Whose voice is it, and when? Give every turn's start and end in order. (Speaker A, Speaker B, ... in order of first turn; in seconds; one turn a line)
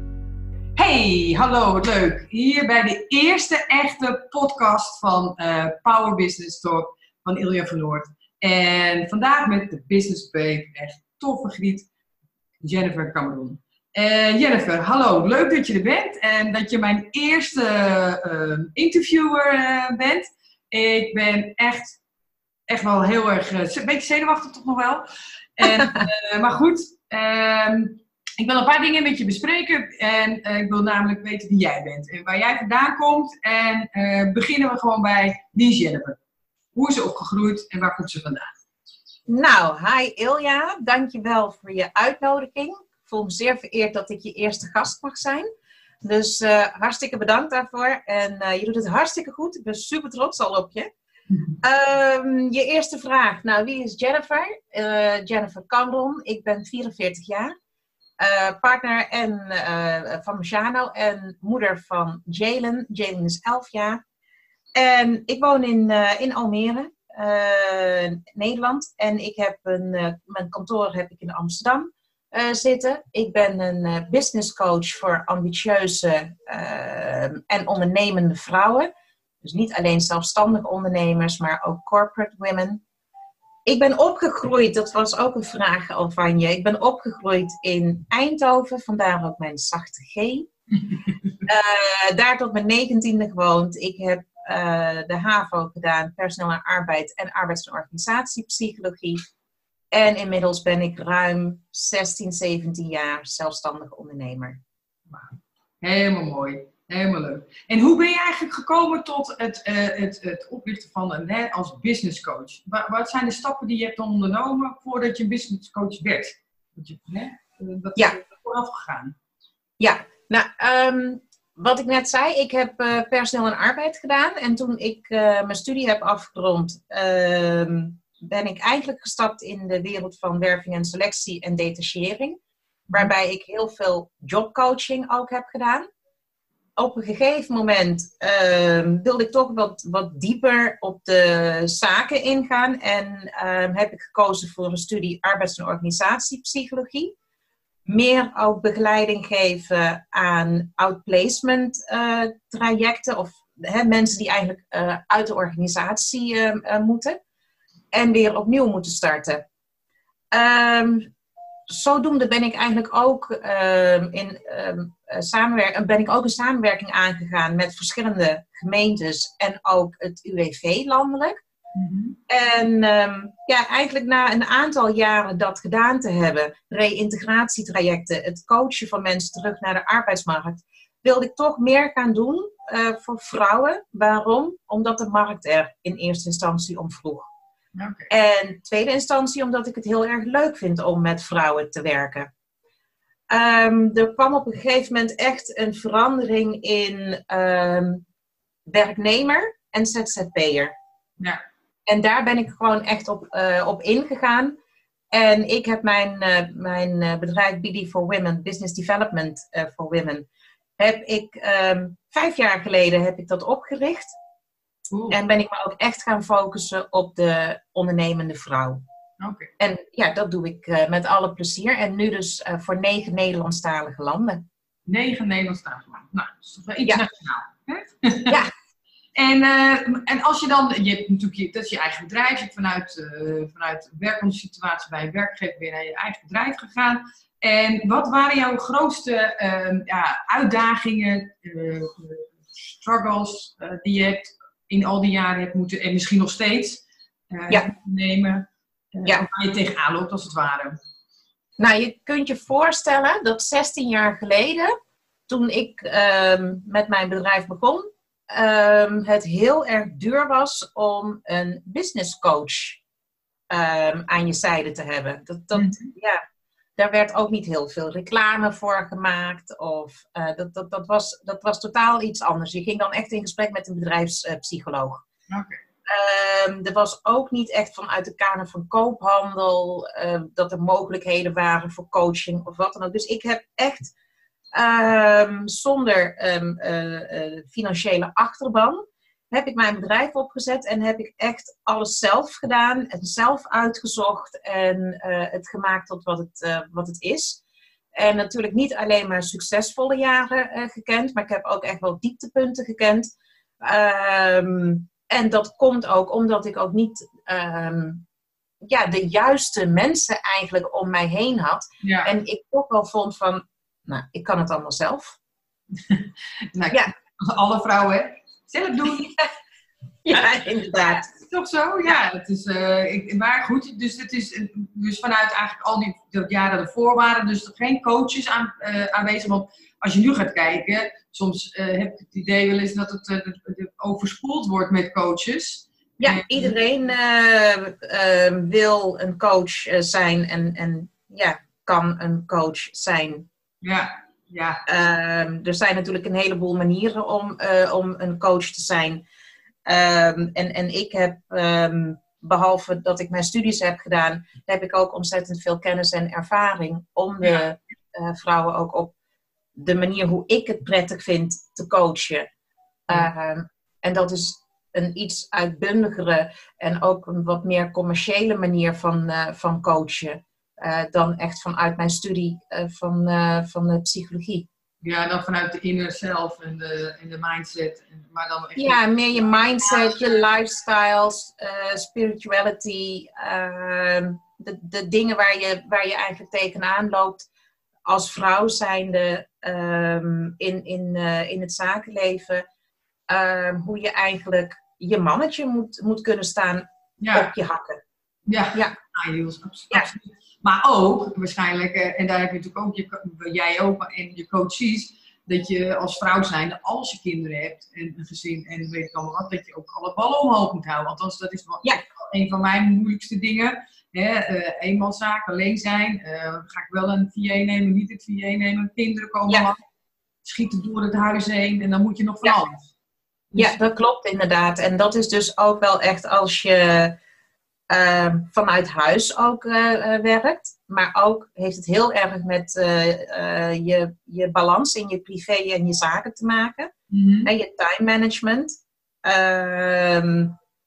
Speaker A: 0.8-11.9
Speaker A: 12.6-22.0
Speaker A: 22.7-25.1
Speaker A: 25.6-36.2
Speaker B: 25.6-26.0
Speaker A: 36.7-38.5
Speaker B: 39.3-45.5
Speaker B: 46.0-50.9
Speaker A: 51.3-51.6
Speaker B: 51.6-57.5
Speaker B: 58.2-64.0
Speaker B: 64.8-78.9
Speaker B: 79.4-82.8
Speaker B: 83.7-90.5
Speaker B: 91.4-99.2
Speaker B: 99.9-104.6
Speaker A: 105.1-119.1
Speaker B: 119.8-132.4
Speaker B: 132.9-135.8
Speaker B: 136.8-147.1
Speaker B: 147.8-157.2
Speaker B: 157.9-159.4
Speaker B: 160.3-161.1
Speaker B: 161.7-171.4
Speaker A: 171.7-172.2
Speaker B: 172.3-187.3
Speaker A: 187.7-188.1
Speaker B: 188.1-192.3
Speaker B: 193.3-198.0
Speaker B: 198.7-200.7
Speaker B: 201.9-204.6
Speaker B: 205.1-210.2
Speaker B: 210.8-214.1
Speaker A: 214.9-215.2
Speaker B: 215.1-218.8
Speaker A: 219.2-219.5
Speaker B: 219.6-224.4
Speaker A: 224.9-228.4
Speaker A: 229.2-250.8
Speaker B: 251.6-254.7
Speaker B: 255.3-262.8
Speaker B: 263.5-266.2
Speaker A: 265.5-265.9
Speaker B: 266.8-275.0
Speaker A: 275.3-275.6
Speaker B: 275.9-283.9
Speaker B: 284.5-297.4
Speaker B: 297.9-303.1
Speaker B: 303.6-308.0
Speaker B: 308.6-315.2
Speaker A: 311.8-312.1
Speaker A: 315.8-319.2
Speaker B: 318.9-319.2
Speaker B: 320.0-321.1
Speaker A: 321.0-336.6
Speaker B: 336.0-343.3
Speaker A: 343.6-344.7
Speaker B: 344.6-349.0
Speaker B: 349.6-358.9
Speaker B: 359.6-362.3
Speaker B: 362.9-374.5
Speaker A: 374.8-378.8
Speaker B: 378.6-387.2
Speaker B: 387.9-392.4
Speaker B: 393.1-397.8
Speaker A: 397.0-397.3
Speaker A: 398.3-419.6
Speaker A: 420.2-422.7
Speaker B: 423.4-426.9
Speaker B: 427.7-436.7
Speaker A: 436.9-437.3
Speaker B: 437.2-438.5
Speaker B: 439.0-440.3